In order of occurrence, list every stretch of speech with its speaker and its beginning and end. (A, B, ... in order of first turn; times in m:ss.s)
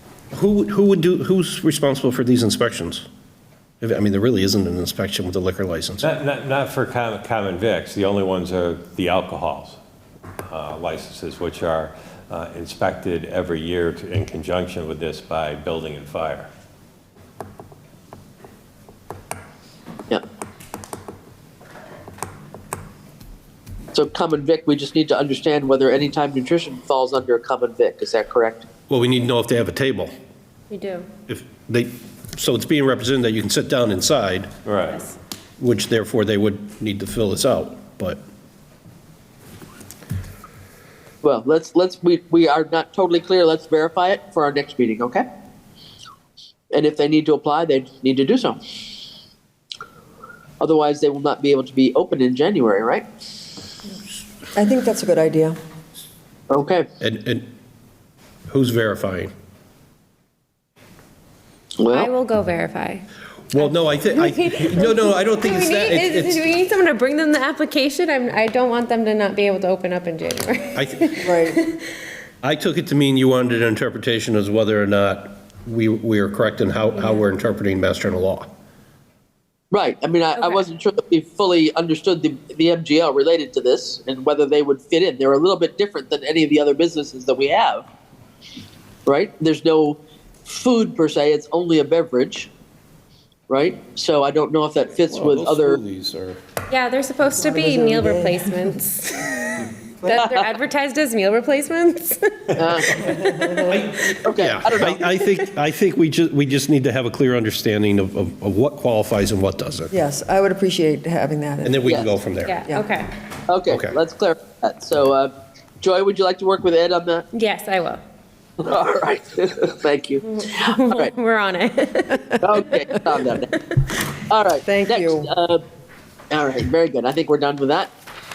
0:00.3-0:03.0 A
0:03.8-0:06.1 A
0:06.0-0:09.8 B
0:10.5-0:16.5 B
0:23.9-0:28.6 C
0:28.9-0:30.1 A
0:30.7-0:31.1 D
0:31.3-0:34.5 A
0:34.6-0:35.1 B
0:35.6-0:38.2 A
0:41.2-0:45.2 C
0:46.7-0:48.6 C
0:50.6-0:53.0 C
0:54.6-0:55.6 E
0:56.5-0:56.9 C
0:57.0-0:57.5 A
0:58.5-0:59.3 A
1:01.8-1:02.1 C
1:01.9-1:03.1 D
1:03.5-1:06.4 A
1:03.9-1:12.0 D
1:10.7-1:11.2 A
1:11.2-1:11.6 E
1:12.4-1:18.5 A
1:19.7-1:27.8 C
1:20.4-1:20.6 D
1:29.0-1:32.5 C
1:33.5-1:35.8 C
1:35.1-1:36.4 A
1:36.7-1:43.8 D
1:37.3-1:38.7 E
1:40.1-1:40.5 C
1:42.6-1:43.0 C
1:42.9-1:43.8 E
1:43.7-1:49.9 A
1:44.1-1:45.0 C
1:49.9-1:52.9 E
1:51.6-1:52.6 A
1:52.4-1:53.2 D
1:53.5-1:57.2 C
1:53.7-1:54.0 A
1:57.3-1:58.0 D
1:58.6-2:01.1 C
2:00.2-2:03.1 D
2:02.4-2:03.5 C
2:04.3-2:05.6 C
2:04.6-2:05.3 E
2:06.3-2:07.9 C